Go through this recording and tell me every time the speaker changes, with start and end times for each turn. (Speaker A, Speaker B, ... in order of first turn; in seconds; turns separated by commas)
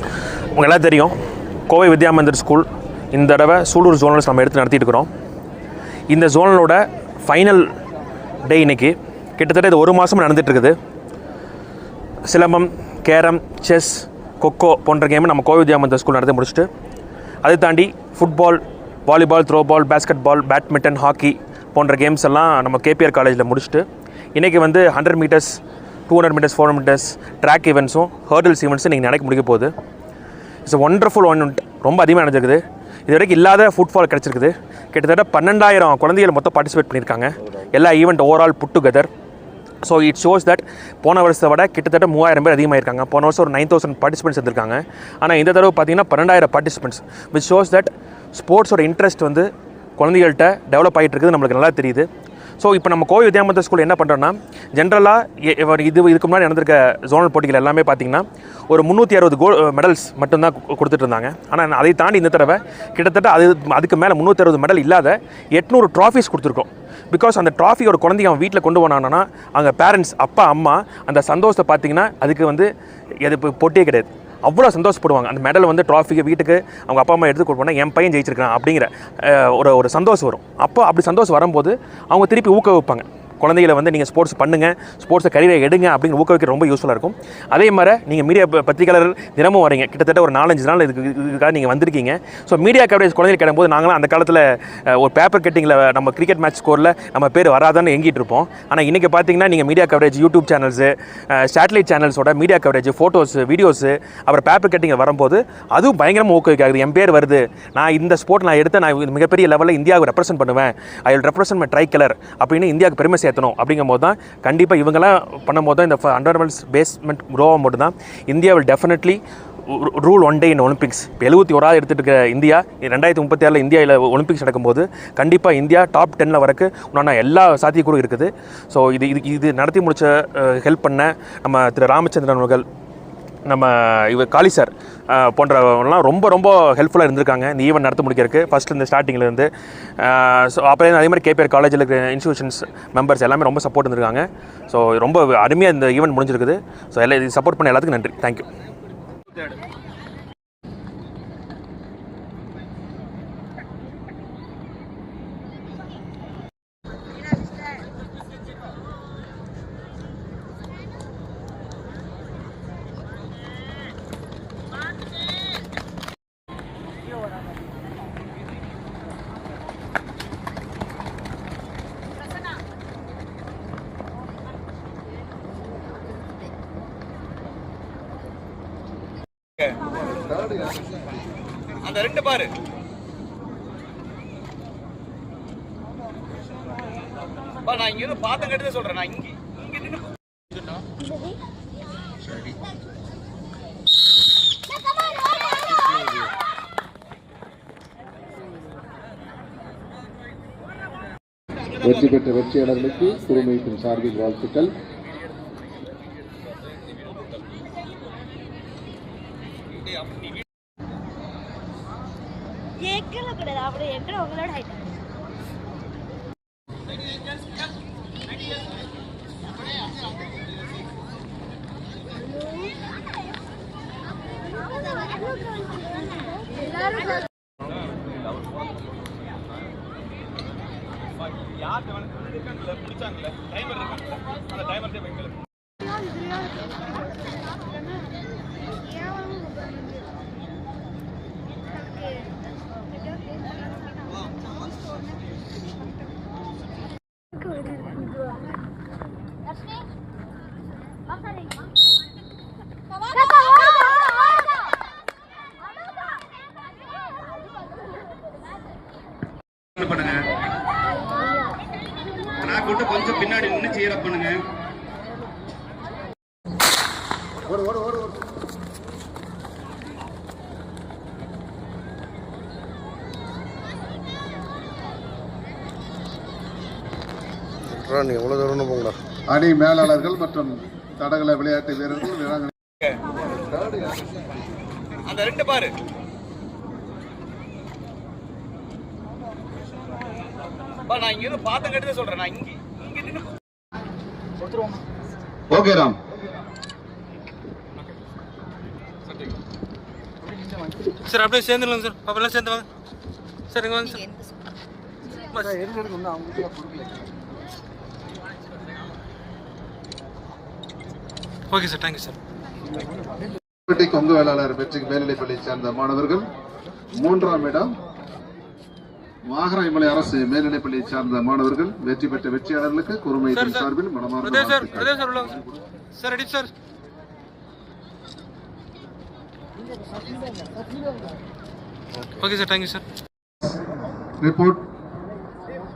Speaker A: 0.5-1.1, Speaker A: 1.7-5.1, Speaker A: 6.1-7.7, Speaker A: 8.4-10.7, Speaker A: 12.3-16.7, Speaker A: 17.4-23.8, Speaker A: 24.4-29.7, Speaker A: 30.6-39.1, Speaker A: 39.8-52.1, Speaker A: 52.6-72.7, Speaker A: 73.2-132.7, Speaker A: 133.4-148.4, Speaker B: 180.2-180.8, Speaker C: 181.8-182.5, Speaker C: 187.7-189.9, Speaker B: 201.8-204.7, Speaker D: 212.8-214.9, Speaker C: 232.6-233.9, Speaker D: 241.7-242.3, Speaker D: 242.9-244.4, Speaker C: 259.8-260.2, Speaker C: 262.5-264.4, Speaker C: 277.9-278.9, Speaker B: 279.3-282.5, Speaker B: 283.4-284.1, Speaker C: 285.1-285.7, Speaker C: 290.9-293.2, Speaker C: 295.5-296.0, Speaker E: 300.9-302.6, Speaker E: 303.5-304.0, Speaker E: 305.1-305.7, Speaker E: 311.5-312.2, Speaker B: 313.7-316.3, Speaker B: 316.9-317.7, Speaker B: 319.2-324.9, Speaker E: 323.3-323.7, Speaker E: 324.2-325.4, Speaker E: 325.9-326.5, Speaker E: 332.1-332.8, Speaker B: 334.2-334.6